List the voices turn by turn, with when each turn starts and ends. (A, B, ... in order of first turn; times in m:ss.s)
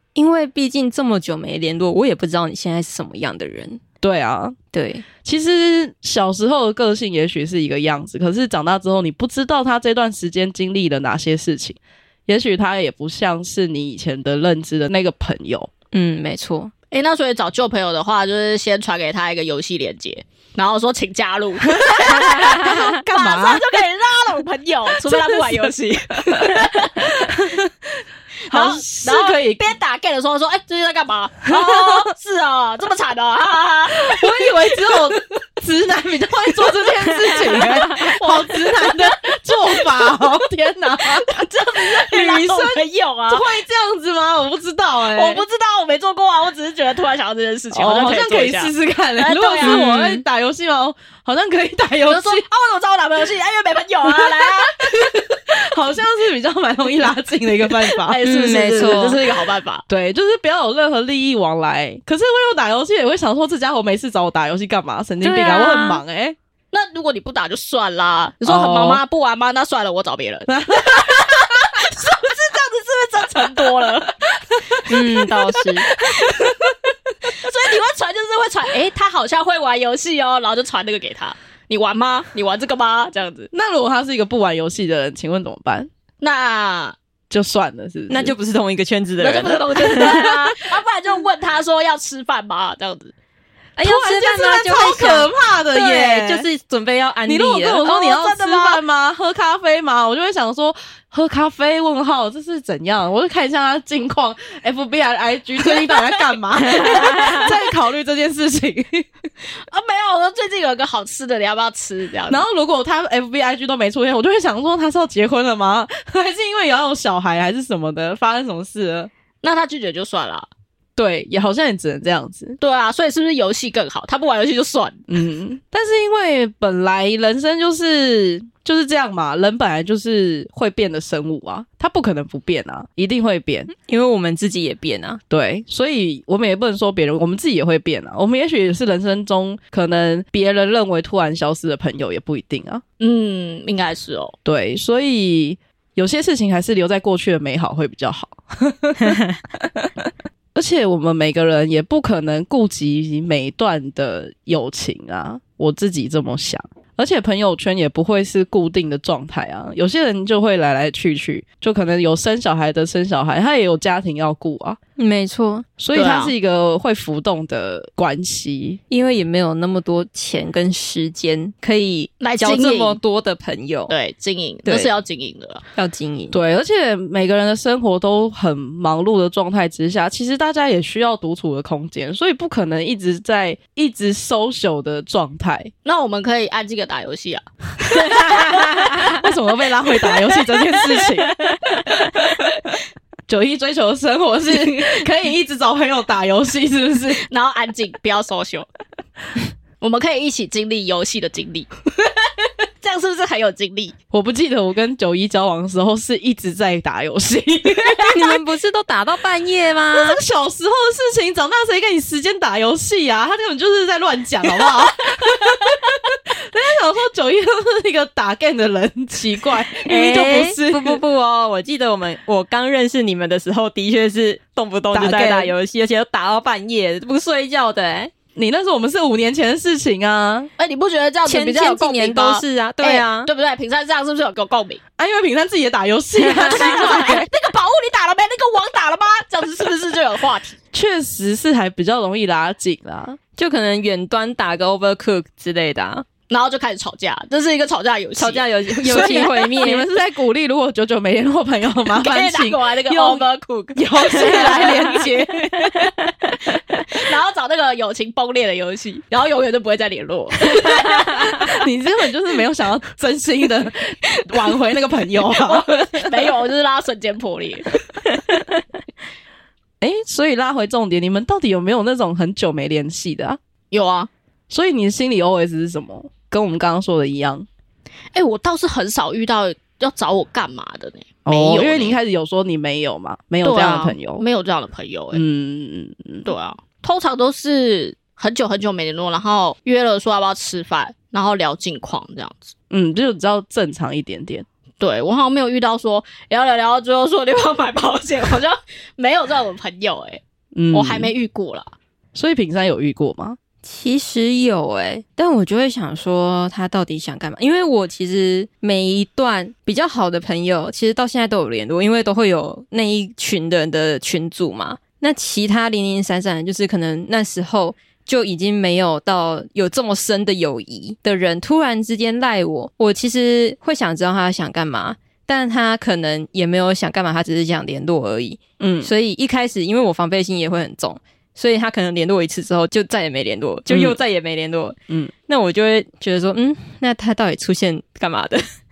0:00.2-0:03.8 A
0:04.0-0:04.6 B
0:04.7-0:05.0 A
0:05.2-0:15.7 B
0:15.9-0:16.7 A
0:16.9-0:27.1 C
0:21.7-0:23.6 B
0:22.2-0:22.8 A
0:25.0-0:25.7 B
0:27.0-0:27.7 B
0:28.5-0:35.3 C
0:28.5-0:29.6 B
0:34.0-0:45.4 B
0:37.3-0:39.1 C
0:39.7-0:40.2 C
0:41.0-0:43.5 C
0:45.0-0:49.9 C
0:47.7-0:52.4 B
0:49.6-0:50.2 A
0:52.1-0:55.0 C
0:54.0-0:58.2 B
0:57.7-0:59.8 C
0:58.2-0:59.2 A
0:59.9-1:06.4 B
1:05.2-1:06.0 C
1:06.7-1:14.1 C
1:08.4-1:09.0 B
1:10.5-1:11.3 B
1:14.9-1:15.9 A
1:16.0-1:16.8 C
1:16.3-1:16.7 B
1:17.4-1:23.5 C
1:23.5-1:25.9 B
1:26.2-1:27.0 C
1:27.3-1:28.3 B
1:28.1-1:30.5 A
1:29.2-1:33.1 C
1:33.8-1:37.8 A
1:33.8-1:36.5 B
1:37.3-1:49.1 B
1:37.8-1:38.8 C
1:45.6-1:47.0 C
1:47.0-1:47.4 A
1:49.6-1:52.4 C
1:52.3-1:59.1 B
1:59.4-2:00.5 C
2:01.0-2:02.6 B
2:02.6-2:05.0 C
2:05.1-2:13.7 B
2:13.7-2:15.2 A
2:15.3-2:22.8 B
2:23.0-2:24.4 C
2:24.4-2:29.9 B
2:30.6-2:44.8 B
2:45.0-2:45.7 A
2:45.8-2:48.8 B
2:46.0-2:46.3 C
2:48.9-2:53.9 A
2:52.2-2:53.0 C
2:53.9-2:55.6 C
2:55.8-2:56.4 A
2:56.3-3:05.7 B
3:05.8-3:08.9 C
3:08.1-3:09.1 A
3:08.1-3:11.4 B
3:10.0-3:11.6 C
3:12.1-3:12.5 B
3:13.3-3:17.2 B
3:17.2-3:18.7 C
3:19.8-3:22.3 C
3:22.8-3:23.9 C
3:24.1-3:28.2 B
3:28.1-3:30.2 A
3:29.9-3:35.8 B
3:36.5-3:41.0 B
3:39.8-3:48.1 A
3:44.9-3:45.5 B
3:48.4-3:50.5 B
3:50.6-3:54.8 C
3:51.2-3:53.3 A
3:55.0-3:57.2 B
3:56.3-4:00.6 C
3:56.4-3:56.8 A
4:00.7-4:03.2 B
4:03.4-4:06.1 A
4:06.3-4:09.6 C
4:08.2-4:09.9 A
4:08.9-4:15.6 B
4:12.0-4:15.2 C
4:14.2-4:15.0 A
4:15.8-4:16.1 A
4:16.9-4:21.2 C
4:20.9-4:21.3 A
4:21.1-4:26.1 B
4:24.2-4:24.5 C
4:25.3-4:28.1 C
4:29.8-4:33.4 B
4:33.7-4:34.1 C
4:34.5-4:37.5 B
4:38.1-4:42.0 C
4:41.2-4:44.2 B
4:43.4-4:45.2 C
4:45.1-4:46.3 B
4:46.2-4:52.5 C
4:52.7-4:54.4 B
4:54.8-5:00.2 C
5:00.6-5:01.1 B
5:00.7-5:01.7 C
5:02.1-5:03.4 B
5:03.6-5:34.8 A
5:28.6-5:28.9 B
5:33.7-5:34.0 B
5:35.3-5:38.4 A